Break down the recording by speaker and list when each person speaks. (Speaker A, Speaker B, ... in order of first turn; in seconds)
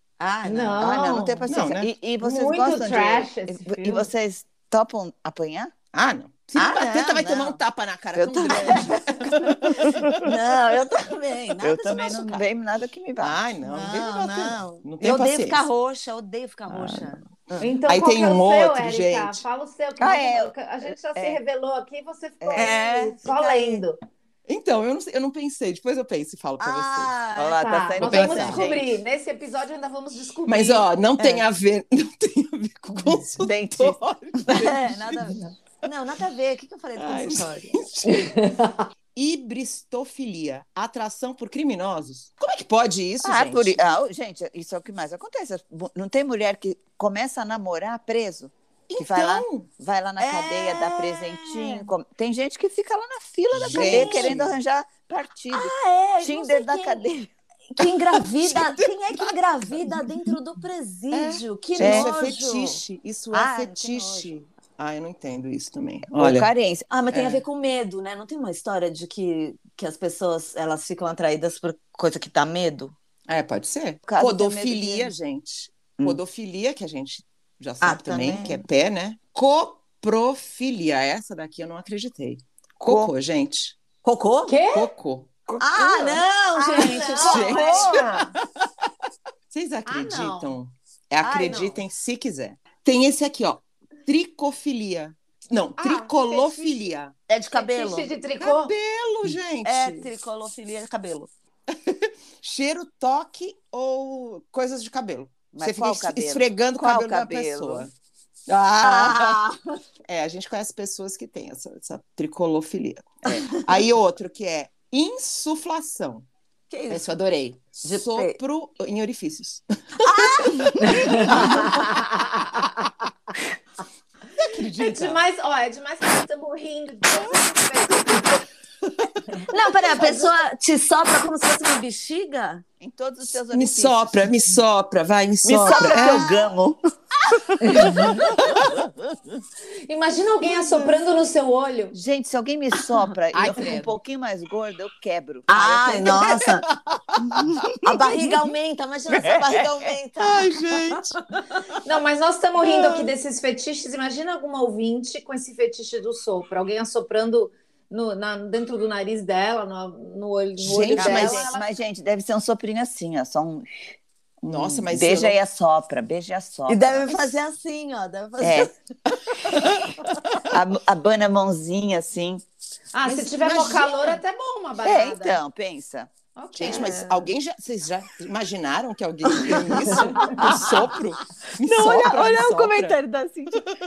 Speaker A: 0.2-0.9, 6.6-7.2, 8.5-8.9, 10.2-12.4, 13.6-17.7, 22.5-23.8, 26.6-28.4, 31.2-31.4, 34.5-35.2, 35.8-37.8, 50.2-51.9, 53.6-54.4, 55.5-57.1, 57.7-64.3, 66.9-72.9, 77.8-78.6, 84.0-84.5, 85.6-88.0, 91.2-91.8, 97.3-98.2, 99.6-101.3, 108.8-109.6, 116.7-117.0, 117.8-118.4, 120.1-121.7, 129.5-132.6, 135.6-136.2, 145.5-146.7, 147.8-150.8, 166.7-168.8, 176.7-177.3, 180.2-180.7, 181.6-183.5
Speaker B: 0.4-1.4, 2.2-4.1, 17.6-24.0, 27.5-30.9, 38.1-38.9, 84.4-84.9, 85.5-88.3, 89.8-90.5, 95.8-96.8, 97.5-98.7, 120.9-122.2, 124.8-128.4, 130.0-130.2, 137.6-138.4, 139.9-142.0, 151.8-161.7, 172.9-175.4, 176.3-177.0, 179.9-180.3
Speaker C: 0.8-5.7, 6.6-7.6, 8.1-10.3, 11.6-13.4, 20.0-21.4, 22.4-22.7, 27.3-28.9, 33.4-34.0, 34.5-35.3, 43.2-57.3, 61.8-62.1, 66.2-66.8, 74.1-75.1, 82.8-83.1, 105.5-107.9, 132.8-134.1, 135.4-136.8, 137.3-138.1, 141.9-146.5, 147.2-147.6, 160.9-163.7, 164.4-167.3, 168.4-168.7, 170.5-172.4, 174.8-176.1
Speaker D: 1.5-1.9, 5.9-10.2, 13.2-15.6, 17.9-19.4, 24.5-27.1, 28.0-28.7, 30.5-35.4, 37.0-38.3, 39.1-43.8, 48.9-49.7, 53.6-54.5, 58.1-60.3, 61.1-66.5, 67.1-67.4, 73.3-83.8, 84.7-85.4, 86.8-88.3, 89.5-97.1, 98.4-100.1, 101.7-107.9, 108.5-109.4, 110.0-116.2, 116.9-121.8, 124.4-125.2, 133.5-136.4, 138.0-138.7, 140.5-140.9, 143.3-143.9, 146.1-146.6, 147.3-147.8, 149.2-151.2, 152.6-153.1, 160.6-161.5, 164.4-165.4, 169.5-170.1, 173.0-174.2, 176.5-183.0